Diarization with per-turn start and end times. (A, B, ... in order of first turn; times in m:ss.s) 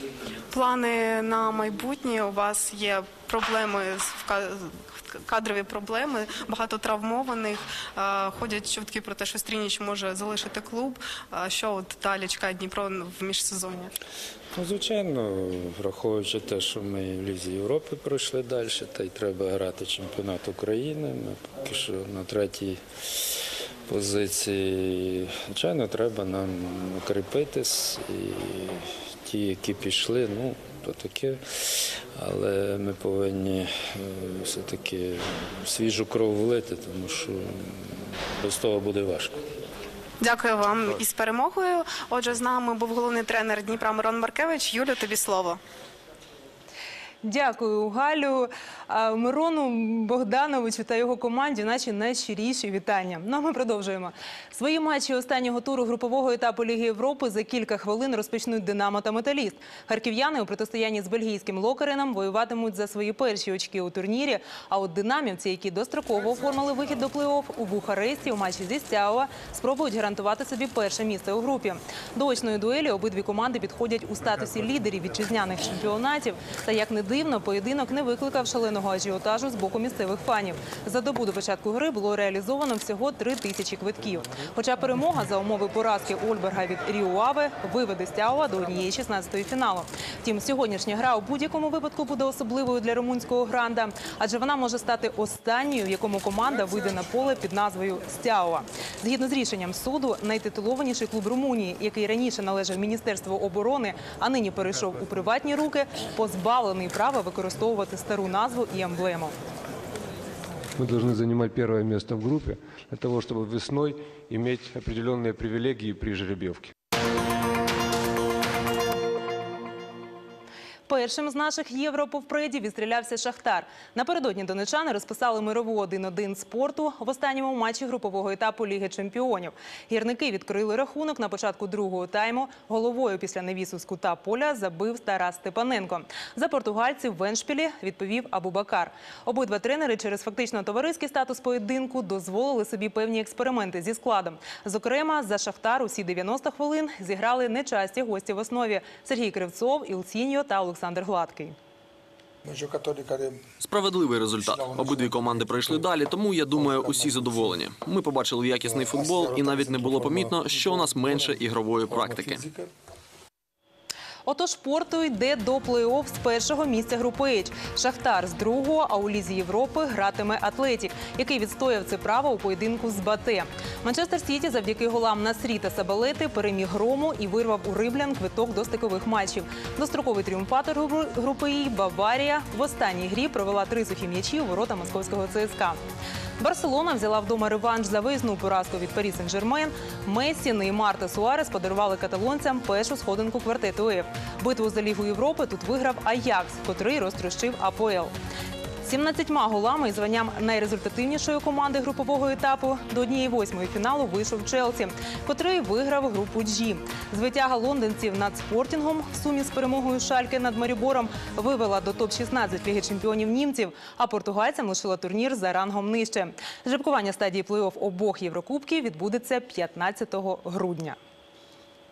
0:00.5-0:13.9 A
0:14.5-0:39.3 B
0:40.2-0:45.6 A
0:47.2-1:49.3 C
1:50.8-1:56.7 D
2:00.9-2:31.6 C
2:32.4-2:33.4 E
2:33.6-2:42.4 F
2:39.0-2:40.2 E
2:42.4-2:42.7 E
2:44.2-3:05.8 C
3:06.4-3:18.1 C
3:18.8-3:41.0 C